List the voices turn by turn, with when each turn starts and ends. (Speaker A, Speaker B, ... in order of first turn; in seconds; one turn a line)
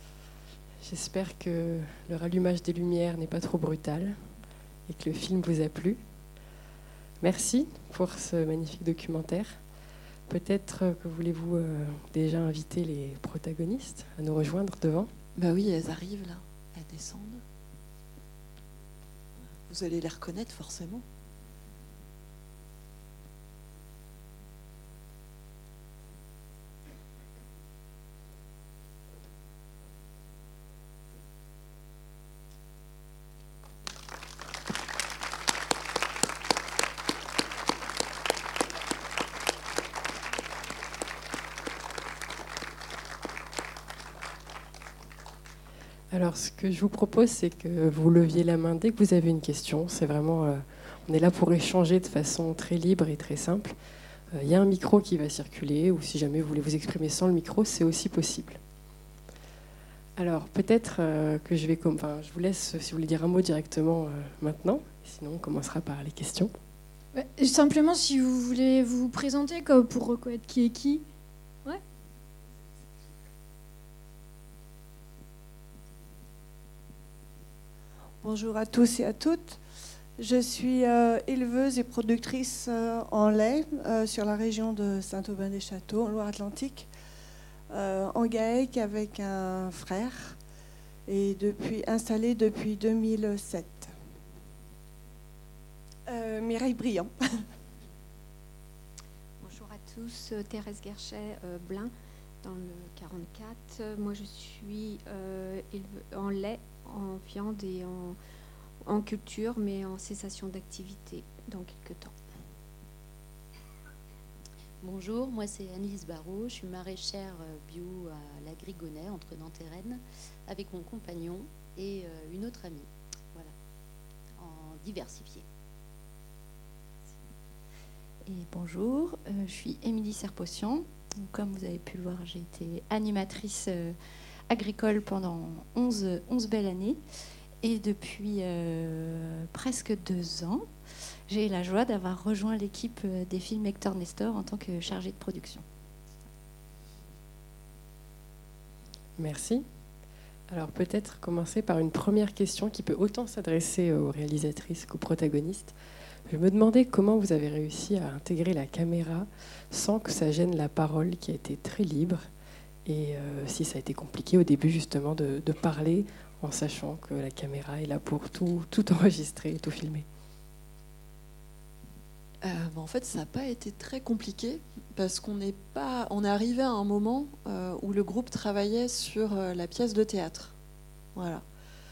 Speaker A: 0.8-4.3
Speaker A: 4.9-6.0
Speaker A: 7.2-9.6
Speaker A: 10.3-15.1
Speaker B: 15.4-17.4
Speaker B: 19.5-21.0
Speaker A: 46.1-53.8
Speaker A: 54.3-58.6
Speaker A: 60.2-66.5
Speaker C: 67.2-71.0
Speaker D: 78.2-79.6
Speaker D: 80.2-86.9
Speaker D: 87.7-90.4
Speaker D: 91.1-93.9
Speaker D: 96.1-97.1
Speaker E: 99.4-101.9
Speaker E: 102.4-108.2
Speaker E: 108.8-112.2
Speaker F: 114.8-123.5
Speaker F: 124.4-125.5
Speaker G: 128.3-133.9
Speaker G: 134.5-137.0
Speaker G: 137.6-140.7
Speaker G: 141.3-145.6
Speaker A: 149.2-149.6
Speaker A: 150.5-155.8
Speaker A: 156.3-162.3
Speaker A: 162.8-170.1
Speaker B: 172.4-180.5
Speaker B: 181.2-181.4